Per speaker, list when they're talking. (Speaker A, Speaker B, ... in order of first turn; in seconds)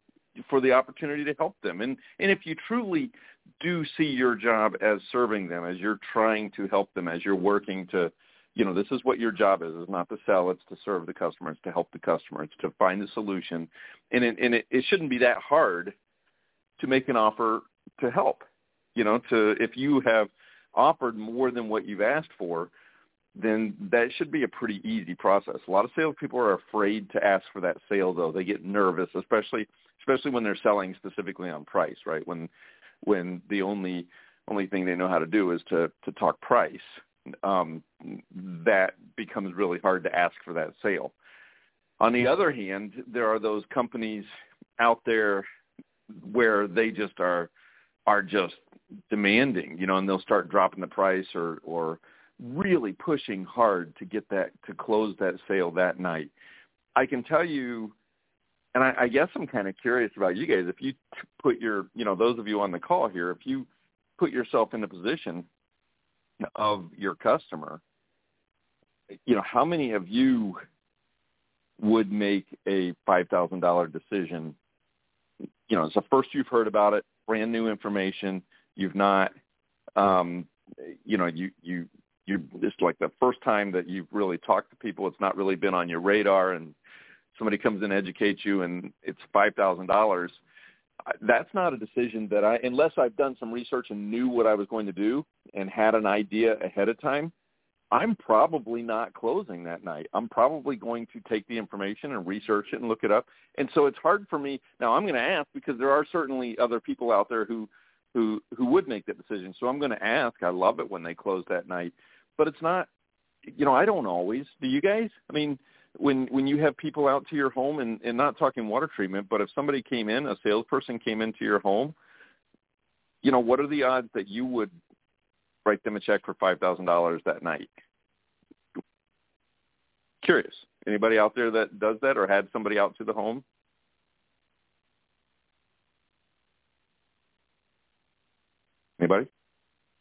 Speaker A: 0.4-15.9, 16.8-18.4, 18.9-22.7, 23.4-32.5, 33.0-36.9, 37.4-41.1, 42.0-44.3, 44.8-45.5, 46.2-47.5, 48.1-56.3, 57.0-57.9, 58.7-63.7, 64.2-65.5, 66.4-67.8, 69.2-70.6, 71.8-74.5, 75.7-79.3, 80.0-86.8, 87.3-90.4, 91.1-97.3, 97.9-112.9, 113.5-122.0, 123.2-124.7, 125.6-127.7, 130.2-133.4, 139.0-139.3